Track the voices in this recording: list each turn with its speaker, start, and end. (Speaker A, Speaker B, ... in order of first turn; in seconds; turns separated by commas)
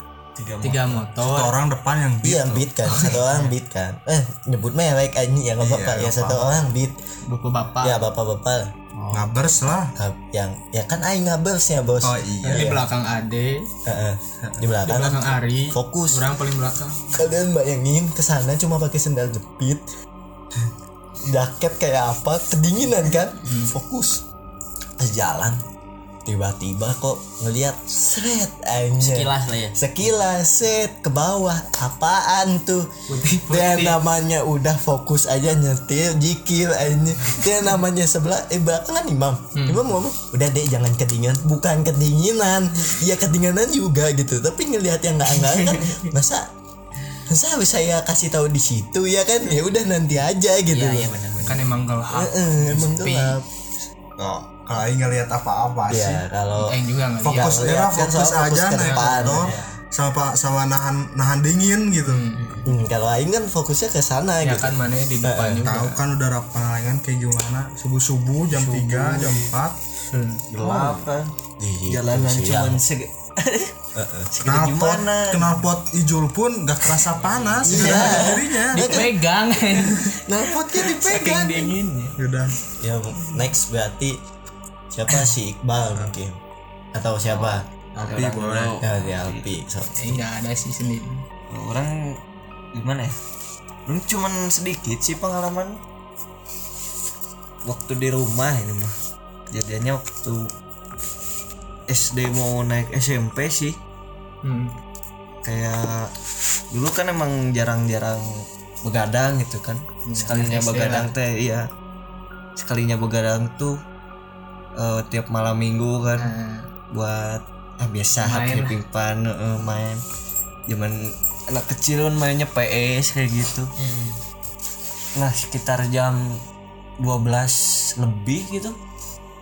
Speaker A: 0.4-1.1, Speaker B: 0.6-1.6, Speaker C: 1.2-2.7, Speaker D: 2.2-7.0, Speaker B: 2.9-3.5, Speaker C: 5.6-6.5, Speaker B: 7.3-8.0, Speaker D: 7.8-8.7, Speaker B: 9.0-9.2, Speaker C: 9.1-9.9, Speaker D: 9.9-12.8, Speaker C: 12.0-12.8, Speaker B: 12.4-13.7, Speaker D: 13.9-16.2, Speaker B: 14.8-17.3, Speaker D: 17.1-19.8, Speaker D: 21.2-24.2, Speaker B: 23.5-23.7, Speaker D: 25.0-25.6, Speaker D: 26.3-32.9, Speaker E: 29.0-29.8, Speaker B: 33.1-34.0, Speaker D: 33.5-46.4, Speaker B: 39.5-39.8, Speaker D: 47.3-51.1, Speaker E: 50.7-51.7, Speaker B: 51.4-53.4, Speaker D: 52.1-53.5, Speaker C: 54.2-56.2, Speaker D: 55.9-59.6, Speaker B: 56.6-57.8, Speaker C: 57.4-62.3, Speaker B: 58.8-59.1, Speaker A: 59.4-59.7, Speaker B: 62.0-62.6, Speaker E: 62.4-62.7, Speaker D: 62.6-65.7, Speaker B: 64.4-66.0, Speaker C: 65.6-69.8, Speaker A: 68.5-69.5, Speaker B: 70.1-70.4, Speaker D: 70.5-72.8, Speaker A: 70.5-71.3, Speaker A: 71.9-73.7, Speaker D: 74.0-74.3, Speaker A: 74.3-75.6, Speaker C: 74.4-79.0, Speaker A: 77.1-78.4, Speaker D: 77.6-79.1, Speaker B: 77.8-82.2, Speaker C: 80.3-82.6, Speaker A: 81.2-81.7, Speaker D: 82.8-84.2, Speaker D: 84.9-86.4, Speaker D: 86.9-87.7, Speaker A: 87.3-89.5, Speaker C: 88.0-88.8, Speaker D: 88.8-90.2, Speaker B: 90.0-91.2, Speaker A: 91.5-91.9, Speaker A: 92.7-93.2, Speaker A: 93.9-95.8, Speaker A: 97.7-98.9, Speaker A: 99.5-100.5, Speaker A: 101.9-103.8, Speaker B: 104.4-104.7, Speaker A: 105.4-106.1, Speaker A: 106.7-111.7, Speaker B: 110.1-111.1, Speaker A: 112.6-113.8, Speaker A: 114.8-116.3, Speaker B: 116.2-116.7, Speaker A: 116.9-120.0, Speaker B: 118.2-118.8, Speaker A: 120.7-123.7, Speaker E: 123.8-124.2, Speaker A: 125.2-126.4, Speaker A: 127.0-128.8